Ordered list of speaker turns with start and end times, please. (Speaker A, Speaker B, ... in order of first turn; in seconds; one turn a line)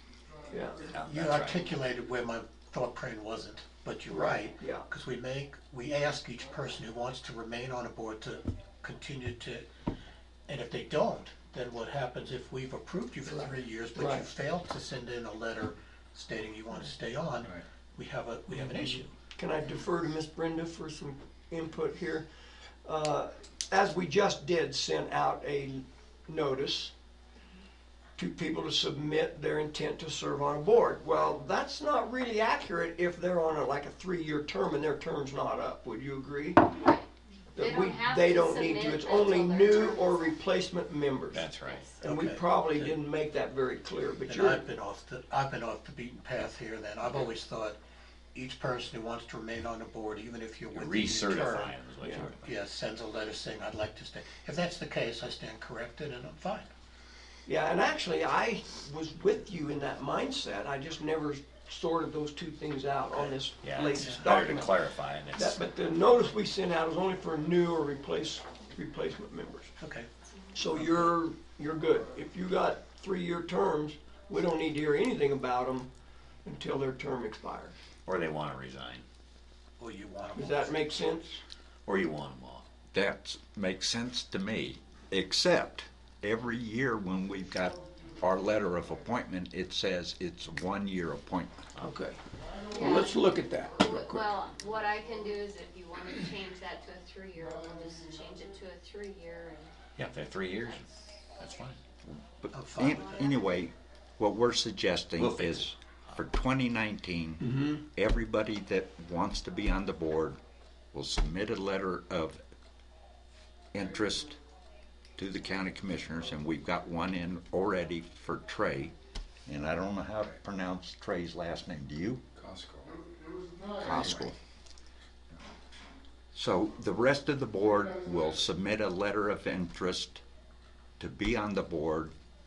Speaker A: 0.5-0.8
Speaker B: 0.8-1.7
Speaker C: 1.0-9.7
Speaker A: 4.1-4.9
Speaker C: 10.5-19.1
Speaker A: 14.0-14.3
Speaker A: 19.2-22.3
Speaker A: 22.8-26.9
Speaker A: 28.2-36.7
Speaker D: 36.8-40.4
Speaker A: 37.5-41.5
Speaker B: 41.3-41.9
Speaker D: 41.7-41.9
Speaker A: 42.0-44.7
Speaker C: 42.0-43.0
Speaker C: 44.3-47.8
Speaker C: 48.3-56.7
Speaker B: 50.7-52.5
Speaker A: 52.0-52.3
Speaker A: 57.5-64.8
Speaker B: 63.6-65.6
Speaker A: 65.3-69.7
Speaker C: 69.8-70.1
Speaker A: 70.5-75.9
Speaker A: 76.5-77.8
Speaker B: 78.1-79.0
Speaker C: 79.8-80.9
Speaker A: 80.3-81.4
Speaker B: 81.9-82.7
Speaker E: 82.9-91.6
Speaker A: 91.8-92.2
Speaker D: 92.7-93.2
Speaker A: 92.7-94.3
Speaker D: 93.7-99.7
Speaker B: 100.0-101.8
Speaker E: 102.1-110.4
Speaker C: 102.5-103.2
Speaker D: 102.8-103.3
Speaker B: 105.2-105.7
Speaker A: 107.4-107.8
Speaker E: 110.9-112.4
Speaker E: 113.7-114.4
Speaker E: 115.2-118.9
Speaker E: 119.5-122.4
Speaker E: 123.8-124.4
Speaker E: 126.3-130.2
Speaker E: 131.0-132.1